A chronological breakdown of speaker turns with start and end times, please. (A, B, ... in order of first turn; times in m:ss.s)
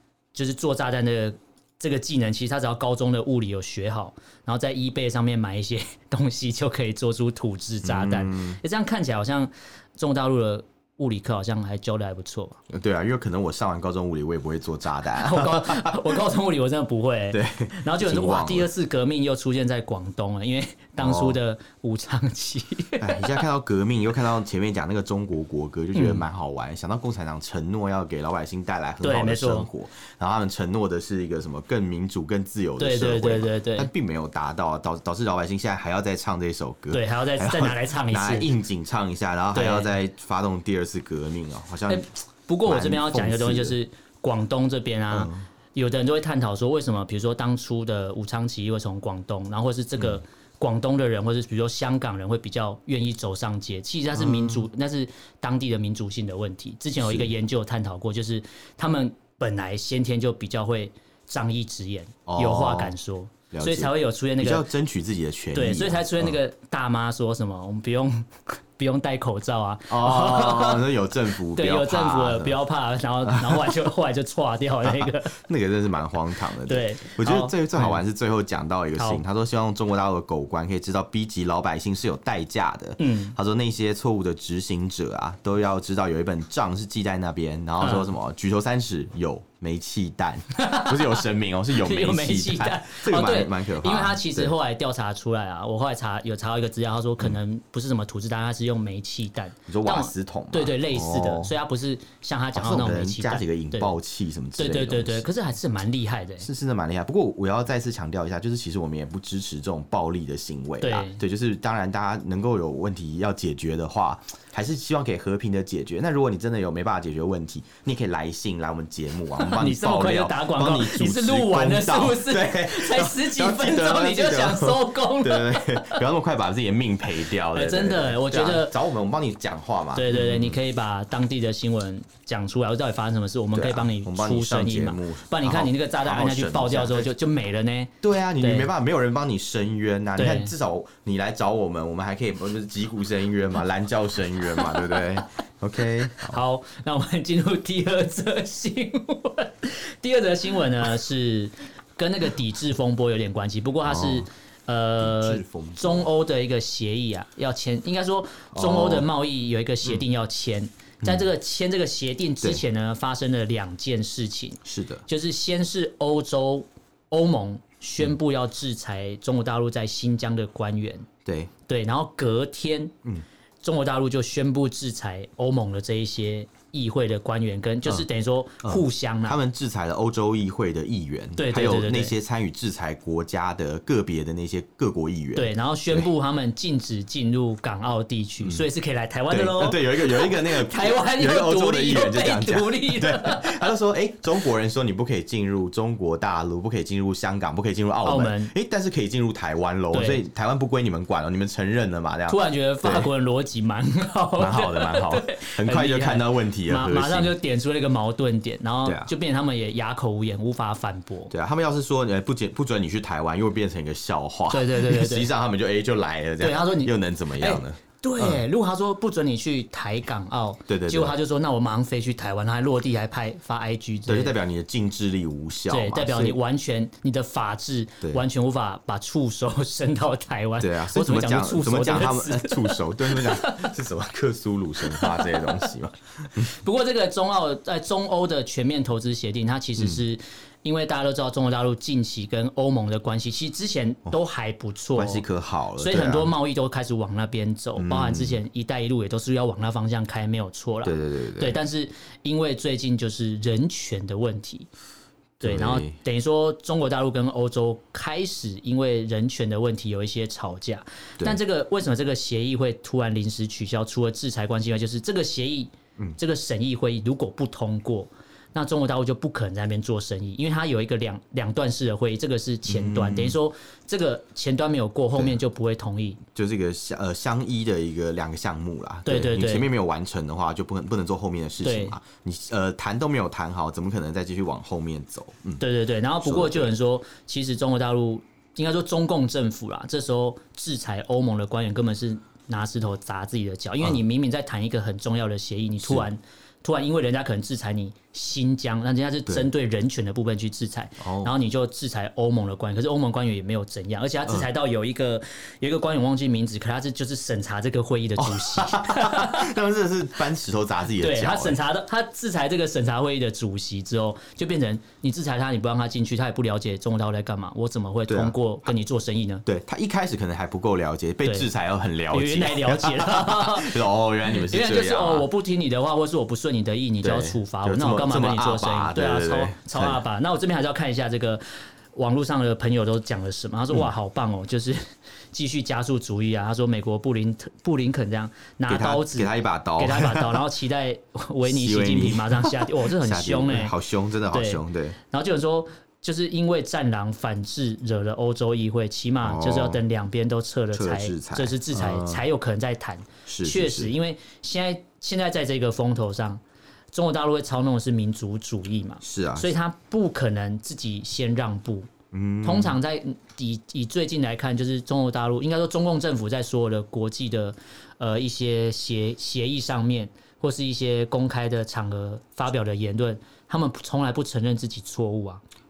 0:00.3-0:12.6 A
0:07.8-0:08.6 B
0:12.7-0:16.2 B
0:15.2-0:23.3 A
0:17.3-0:18.7 B
0:21.0-0:21.4 B
0:23.0-0:42.0 B
0:25.9-0:26.2 A
0:29.0-0:29.7 A
0:32.8-0:33.9 A
0:36.9-0:38.5 A
0:39.5-0:39.9 A
0:41.9-1:04.7 A
0:42.6-0:43.8 B
0:45.1-0:45.4 B
0:54.1-0:54.6 B
0:57.0-0:57.3 B
1:02.3-1:03.0 B
1:03.5-1:06.4 B
1:05.5-1:10.9 A
1:09.9-1:12.6 B
1:11.5-1:15.4 A
1:13.2-1:13.8 B
1:14.8-1:34.5 B
1:16.6-1:18.0 A
1:19.0-1:19.2 A
1:23.0-1:23.3 A
1:27.8-1:28.1 A
1:30.5-1:44.0 A
1:39.7-1:41.5 B
1:42.5-1:45.3 B
1:44.6-1:46.5 A
1:46.4-2:10.6 B
1:50.8-1:51.2 A
1:59.4-2:06.0 A
2:07.5-2:08.7 A
2:09.9-2:18.7 A
2:13.5-2:17.1 B
2:18.0-2:26.4 B
2:20.2-2:20.5 A
2:26.2-2:51.1 A
2:33.8-2:34.3 B
2:35.0-2:36.1 B
2:38.5-2:39.1 B
2:44.6-2:45.0 B
2:51.2-2:51.5 B
2:51.7-2:52.9 A
2:53.6-2:59.4 A
2:58.6-3:06.1 B
3:01.4-3:02.1 A
3:05.4-3:13.6 A
3:09.3-3:23.1 B
3:18.0-3:18.5 A
3:19.9-3:20.2 A
3:22.3-3:31.3 A
3:24.4-3:27.3 B
3:28.8-3:29.1 B
3:31.3-3:38.4 B
3:34.5-3:35.3 A
3:36.4-3:44.4 A
3:40.7-3:41.2 B
3:44.0-3:46.4 B
3:45.7-3:53.7 A
3:50.6-3:56.5 B
3:54.8-3:55.7 A
3:56.4-4:05.2 A
3:59.8-4:00.0 B
4:05.0-4:06.3 B
4:05.8-4:14.7 A
4:07.8-4:08.4 B
4:10.8-4:11.6 B
4:15.4-4:16.0 B
4:15.4-4:36.2 A
4:32.7-4:33.4 B
4:36.3-4:45.6 B
4:39.0-4:39.7 A
4:41.6-4:41.9 A
4:45.6-5:09.5 A
4:46.2-4:46.7 B
5:01.0-5:01.3 B
5:08.2-5:11.6 B
5:11.0-5:19.4 A
5:18.1-5:18.3 B
5:19.4-5:25.3 B
5:21.2-5:21.5 A
5:22.1-5:31.4 A
5:27.0-5:30.0 B
5:31.9-5:43.7 A
5:38.7-5:40.4 B
5:41.4-5:45.0 B
5:44.3-5:56.4 A
5:49.2-5:49.8 B
5:50.7-5:52.2 B
5:53.3-5:53.9 B
5:56.9-6:01.9 A
5:59.0-5:59.5 B
6:02.1-6:02.8 B
6:02.4-6:15.4 A